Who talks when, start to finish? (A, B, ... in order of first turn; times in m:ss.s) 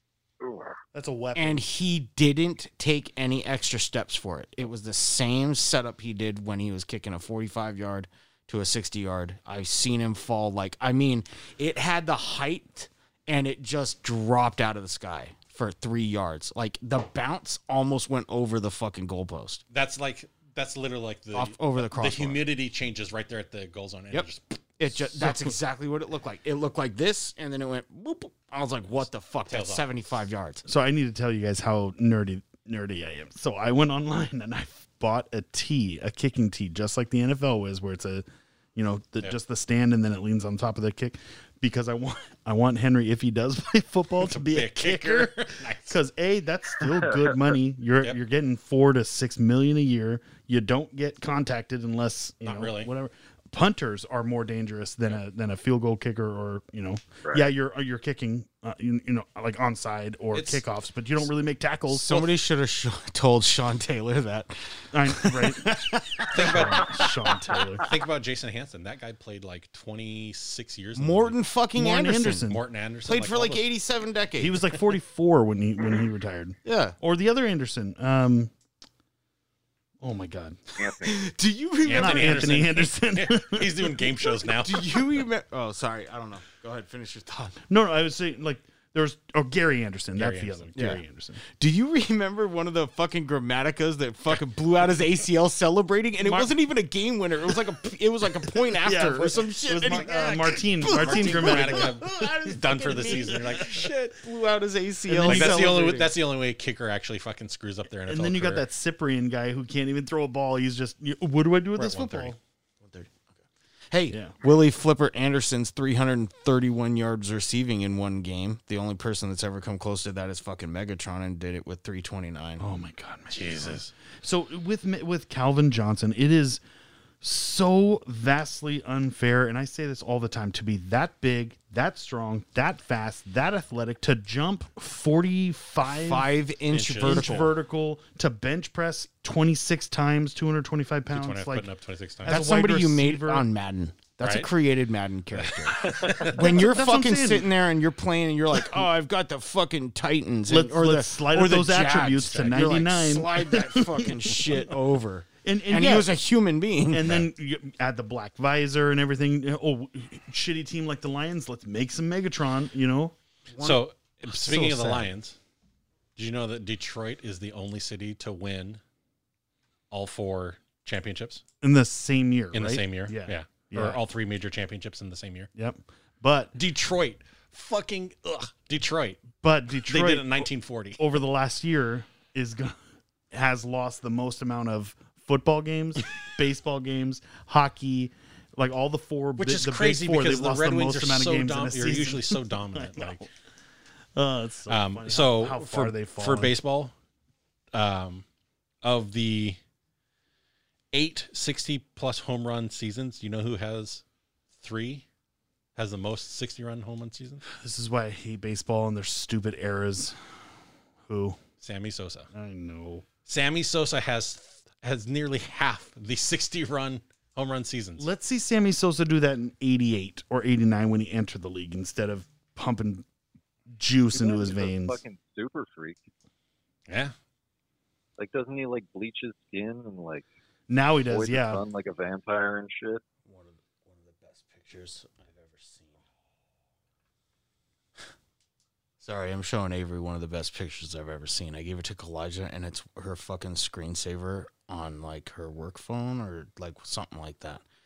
0:00.4-0:00.8 A
0:00.9-0:01.6 B
0:01.3-0:19.6 C
0:19.7-0:25.2 D
0:21.3-0:22.5 C
0:24.8-0:30.6 C
0:25.2-0:25.5 B
0:29.5-0:29.9 D
0:30.6-1:02.3 B
0:44.2-0:46.0 D
0:46.8-0:47.5 A
0:52.4-0:52.9 D
1:00.3-1:00.6 D
1:01.9-1:07.6 C
1:04.9-1:07.9 B
1:06.3-1:07.0 D
1:07.8-1:11.4 D
1:11.0-1:14.8 C
1:11.8-1:12.6 B
1:12.5-1:13.6 D
1:14.4-1:18.5 B
1:16.6-1:17.0 C
1:20.0-1:20.6 B
1:20.8-1:21.3 A
1:21.0-1:22.6 C
1:21.8-1:25.2 D
1:21.9-1:24.3 B
1:24.6-1:27.6 C
1:27.7-1:31.4 B
1:30.2-1:30.7 D
1:30.7-1:31.0 C
1:31.6-1:46.1 C
1:38.8-1:43.8 B
1:39.9-1:44.0 D
1:45.1-1:45.9 B
1:45.1-1:48.6 D
1:48.0-1:52.4 B
1:51.8-1:52.4 D
1:52.8-1:53.2 C
1:53.9-2:02.7 C
1:54.1-1:54.3 B
2:02.6-2:06.6 B
2:03.3-2:03.9 D
2:07.2-2:16.3 B
2:15.8-2:17.5 C
2:16.7-2:17.5 D
2:17.0-2:21.7 B
2:21.1-2:22.4 D
2:22.2-2:23.4 B
2:22.2-2:37.2 C
2:24.2-2:24.5 D
2:25.3-2:26.5 D
2:26.3-2:27.5 B
2:30.5-2:34.7 B
2:35.4-2:36.1 B
2:36.9-2:43.1 B
2:43.5-2:43.8 C
2:43.6-2:45.4 D
2:44.3-2:45.1 B
2:46.2-2:48.8 D
2:49.9-2:51.4 D
2:51.6-2:54.0 B
2:52.5-2:55.5 D
2:55.5-2:56.5 B
2:56.5-2:59.2 D
2:59.4-3:02.8 B
2:59.8-3:01.0 D
3:03.3-3:13.3 B
3:09.4-3:13.2 D
3:14.1-3:16.5 B
3:14.7-3:16.9 D
3:17.7-3:18.2 D
3:18.8-3:19.6 D
3:20.9-3:24.0 D
3:24.6-3:25.0 D
3:25.8-3:27.4 D
3:27.6-3:30.1 B
3:31.1-3:31.4 B
3:31.6-3:32.3 D
3:32.3-3:33.0 B
3:33.2-3:38.1 D
3:38.0-3:43.0 B
3:43.8-3:45.0 B
3:44.1-3:46.0 A
3:46.9-3:47.1 D
3:48.2-3:50.2 A
3:50.7-3:51.6 B
3:51.0-3:53.0 A
3:53.2-3:56.0 C
3:59.0-4:07.6 C